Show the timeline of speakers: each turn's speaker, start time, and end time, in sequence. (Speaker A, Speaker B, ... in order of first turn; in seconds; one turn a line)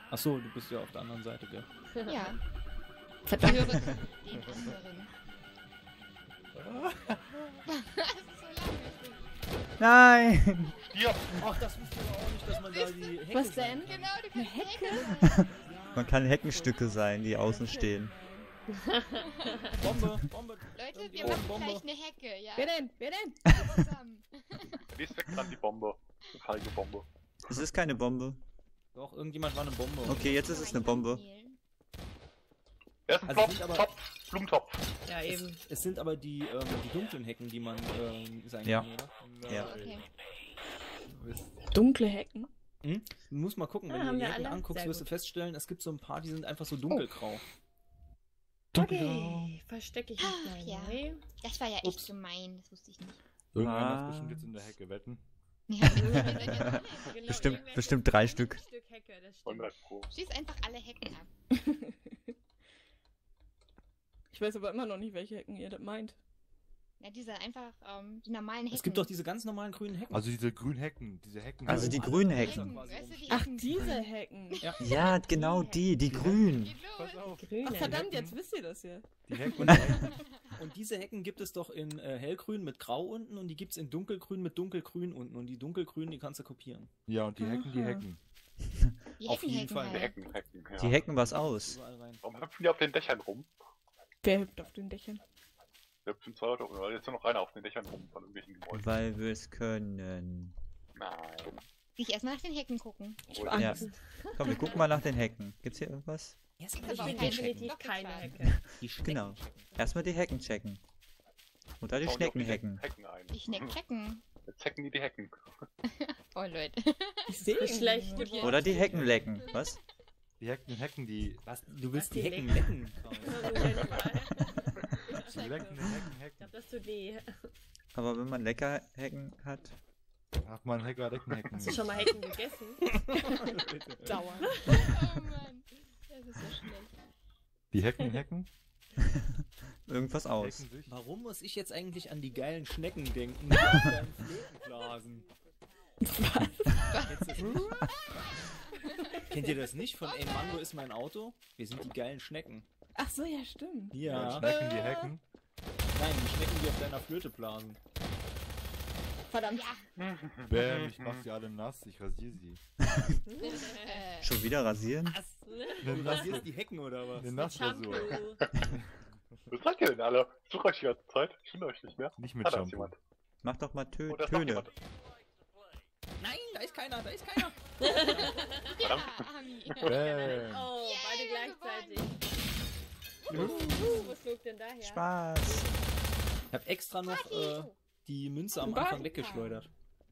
Speaker A: 0.1-1.7
Speaker B: 1.9-2.3
Speaker C: 2.1-2.4
Speaker B: 3.3-3.8
Speaker C: 3.4-5.1
Speaker D: 6.6-7.4
Speaker C: 7.7-9.2
Speaker E: 9.8-10.8
Speaker F: 10.9-11.4
Speaker A: 11.4-14.2
Speaker C: 12.7-13.2
Speaker G: 13.3-15.3
Speaker C: 13.8-15.5
Speaker A: 15.6-16.2
Speaker E: 15.9-18.1
Speaker G: 16.4-18.5
Speaker B: 18.7-19.7
Speaker A: 19.8-21.9
Speaker C: 20.8-22.8
Speaker F: 21.2-21.5
Speaker G: 22.6-23.4
Speaker C: 23.5-24.9
Speaker F: 24.9-27.1
Speaker E: 27.5-28.4
Speaker A: 28.9-30.3
Speaker E: 30.0-31.2
Speaker C: 30.2-31.6
Speaker F: 33.1-34.8
Speaker A: 33.2-33.9
Speaker B: 35.1-35.6
Speaker A: 35.3-39.1
Speaker D: 39.2-40.0
Speaker E: 39.5-39.7
Speaker C: 39.5-40.0
Speaker D: 41.1-41.5
Speaker G: 41.7-42.5
Speaker A: 42.8-47.4
Speaker B: 43.9-45.1
Speaker D: 48.7-49.5
Speaker B: 48.7-51.2
Speaker C: 50.2-53.2
Speaker A: 51.8-52.1
Speaker D: 53.5-55.2
Speaker E: 53.6-54.5
Speaker C: 55.7-57.7
Speaker E: 55.9-58.6
Speaker B: 56.0-59.7
Speaker F: 59.5-60.1
Speaker C: 60.1-61.3
Speaker G: 61.7-62.2
Speaker G: 64.3-66.2
Speaker C: 67.0-69.1
Speaker A: 68.7-70.3
Speaker D: 70.1-72.2
Speaker E: 71.7-72.8
Speaker A: 71.7-73.5
Speaker C: 71.9-74.1
Speaker G: 73.3-74.6
Speaker E: 74.8-76.8
Speaker B: 75.1-76.0
Speaker D: 76.1-78.4
Speaker C: 76.5-77.4
Speaker B: 77.4-78.1
Speaker G: 77.6-79.8
Speaker D: 79.3-80.1
Speaker A: 79.6-80.0
Speaker C: 79.9-80.6
Speaker A: 80.5-86.9
Speaker D: 87.1-88.2
Speaker G: 87.4-88.1
Speaker C: 89.2-90.2
Speaker A: 89.3-90.1
Speaker F: 89.7-91.0
Speaker E: 90.8-91.8
Speaker A: 91.1-92.2
Speaker F: 92.2-93.5
Speaker G: 94.2-95.2
Speaker F: 96.1-99.0
Speaker E: 98.7-100.6
Speaker F: 101.0-101.6
Speaker C: 102.0-103.2
Speaker G: 103.3-104.7
Speaker F: 103.3-103.7
Speaker E: 103.5-106.4
Speaker B: 103.8-105.0
Speaker A: 106.6-109.7
Speaker C: 106.8-108.4
Speaker B: 106.8-108.7
Speaker E: 108.5-110.8
Speaker E: 111.8-112.8
Speaker F: 112.0-113.8
Speaker C: 113.3-114.2
Speaker F: 114.5-115.4
Speaker C: 115.8-117.5
Speaker G: 117.3-118.4
Speaker B: 117.5-119.0
Speaker C: 118.1-119.8
Speaker E: 118.4-119.8
Speaker D: 118.9-119.2
Speaker D: 120.4-121.4
Speaker A: 121.5-123.7
Speaker B: 121.9-127.5
Speaker D: 123.1-123.9
Speaker D: 125.3-126.5
Speaker E: 127.9-129.8
Speaker D: 130.4-132.2
Speaker B: 131.5-132.8
Speaker A: 132.9-134.2
Speaker G: 133.2-133.5
Speaker G: 134.0-134.9
Speaker B: 134.4-134.8
Speaker C: 134.7-136.9
Speaker G: 136.5-136.7
Speaker D: 137.7-138.5
Speaker E: 139.9-140.7
Speaker D: 140.4-140.9
Speaker A: 140.9-145.2
Speaker G: 146.0-146.9
Speaker A: 146.9-147.8
Speaker A: 149.3-152.7
Speaker G: 153.0-155.1
Speaker A: 153.9-154.5
Speaker D: 154.0-155.2
Speaker A: 155.9-157.8
Speaker G: 159.3-159.6
Speaker B: 159.3-159.7
Speaker C: 159.5-159.9
Speaker F: 160.0-161.3
Speaker D: 160.4-162.6
Speaker B: 163.3-164.0
Speaker C: 163.5-164.3
Speaker E: 164.2-165.2
Speaker B: 165.5-166.4
Speaker D: 165.8-166.5
Speaker A: 165.9-167.3
Speaker D: 167.2-168.8
Speaker B: 167.3-168.5
Speaker F: 168.4-168.7
Speaker F: 169.5-173.0
Speaker D: 172.2-172.9
Speaker E: 173.4-174.7
Speaker F: 174.1-174.7
Speaker A: 176.2-178.4
Speaker B: 177.8-178.8
Speaker C: 178.8-179.9
Speaker F: 178.8-180.2
Speaker D: 179.9-180.7
Speaker B: 180.0-182.1
Speaker C: 180.7-182.1
Speaker B: 183.3-185.1
Speaker E: 183.4-183.9
Speaker G: 183.6-184.1
Speaker E: 184.8-185.7
Speaker A: 186.5-189.7
Speaker C: 187.0-187.8
Speaker G: 188.6-189.6